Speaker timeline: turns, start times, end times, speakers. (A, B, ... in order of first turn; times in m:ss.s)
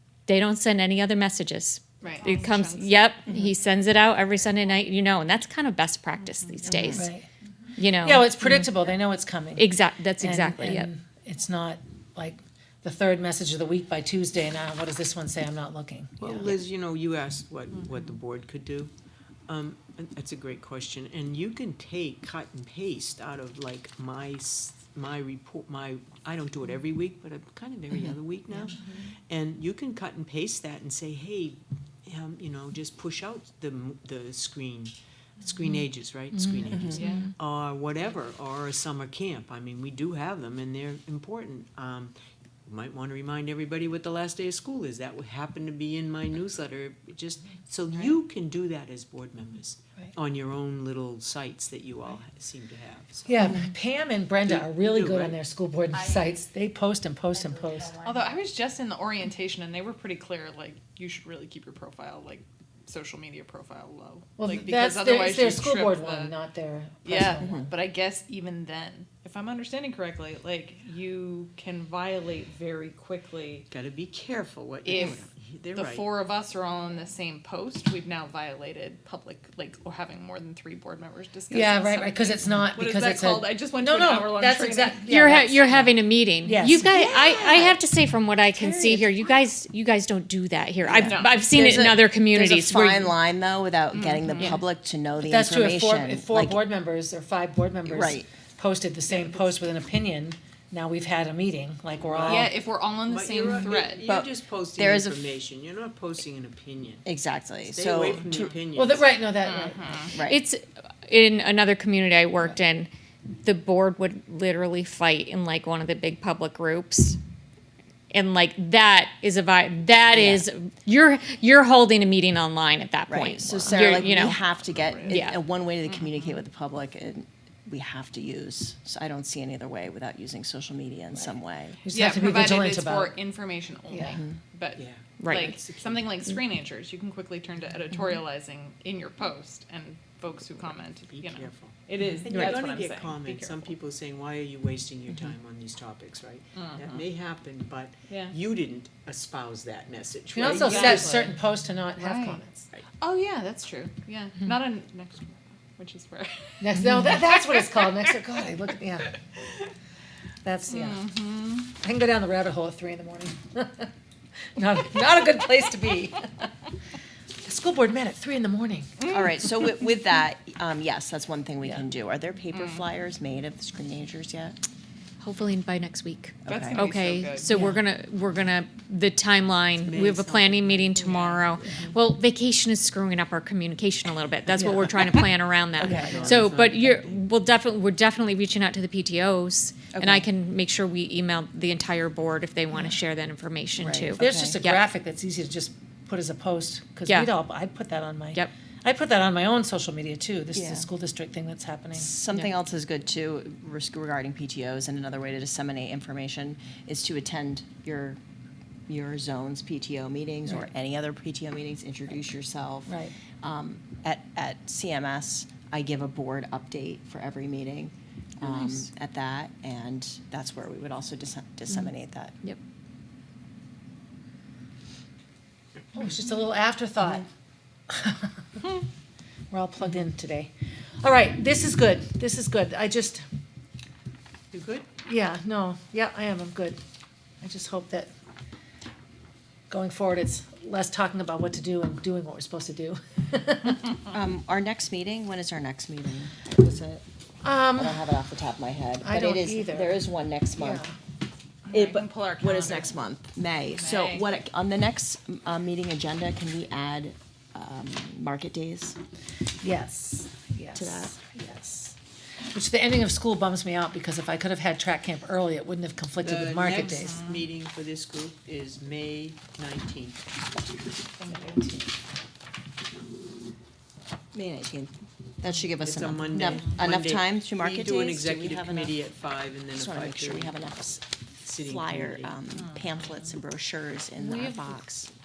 0:00.3-0:07.1 A
0:02.0-0:03.0 B
0:06.4-0:07.0 B
0:06.9-0:07.3 C
0:07.8-0:08.9 A
0:08.0-0:09.7 C
0:09.6-0:10.9 A
0:10.2-0:16.5 C
0:16.2-0:18.9 D
0:19.5-0:28.8 D
0:29.3-0:42.1 D
0:36.4-0:37.1 C
0:36.7-0:37.0 E
0:36.9-0:37.3 B
0:42.6-0:53.3 D
0:53.3-0:58.0 C
0:54.4-0:55.4 D
0:58.0-1:06.3 B
1:04.4-1:07.7 C
1:07.0-1:13.6 B
1:07.4-1:07.7 E
1:13.7-1:16.1 D
1:14.8-1:25.6 B
1:21.5-1:27.2 C
1:25.1-1:33.1 A
1:28.6-1:29.1 C
1:30.8-1:36.6 E
1:31.0-1:31.5 B
1:33.9-1:34.6 B
1:35.2-1:42.5 C
1:37.8-1:38.3 E
1:42.0-1:47.0 D
1:42.2-1:44.0 B
1:44.1-1:45.2 E
1:47.0-1:48.6 E
1:47.7-1:49.1 D
1:48.6-1:50.1 C
1:49.4-1:50.1 B
1:50.1-1:50.4 E
1:50.2-1:57.2 A
1:58.1-2:04.4 A
2:00.1-2:00.4 E
2:03.1-2:11.8 E
2:03.7-2:05.3 B
2:05.1-2:05.4 A
2:11.8-2:13.1 C
2:11.9-2:23.7 B
2:13.9-2:14.2 C
2:14.1-2:14.4 E
2:14.8-2:16.1 D
2:15.2-2:15.5 A
2:20.6-2:31.3 D
2:26.5-2:26.8 B
2:28.1-2:28.4 B
2:30.3-2:32.7 C
2:30.4-2:31.3 B
2:32.0-2:32.4 B
2:33.0-2:38.4 B
2:36.6-2:39.2 C
2:39.2-2:39.7 B
2:40.4-2:41.0 C
2:40.7-2:41.7 B
2:41.7-2:43.9 C
2:44.5-2:46.5 C
2:47.4-2:49.0 C
2:49.0-2:49.3 B
2:49.1-2:54.6 E
2:52.5-2:52.8 B
2:55.2-3:14.8 A
2:56.4-2:56.8 E
2:56.5-2:57.6 B
2:57.5-2:57.8 C
2:59.8-3:01.6 D
3:04.6-3:04.8 C
3:05.8-3:07.2 D
3:05.8-3:06.4 C
3:09.9-3:10.2 E
3:13.8-3:14.6 E
3:14.2-3:22.1 C
3:20.5-3:20.9 E
3:21.9-3:28.2 E
3:28.9-3:42.3 E
3:32.9-3:33.2 C
3:38.5-3:38.8 A
3:45.9-3:47.3 C
3:47.9-3:48.4 C
3:49.5-3:53.2 C
3:54.5-3:54.9 D
3:55.0-3:56.8 C
3:57.4-3:58.1 C
3:59.7-4:03.9 C
4:04.1-4:07.0 E
4:07.4-4:08.0 C
4:07.8-4:10.8 E
4:09.0-4:10.0 C
4:10.6-4:10.9 C
4:11.7-4:12.9 B
4:11.7-4:19.0 E
4:13.7-4:14.3 B
4:19.6-4:22.0 C
4:20.7-4:21.1 E
4:22.5-4:27.2 C
4:26.2-4:30.2 D
4:26.8-4:27.5 B
4:31.2-4:31.8 B
4:34.3-4:39.0 E
4:35.8-4:40.6 D
4:39.7-4:45.1 E
4:41.4-4:42.3 D
4:44.2-4:44.8 A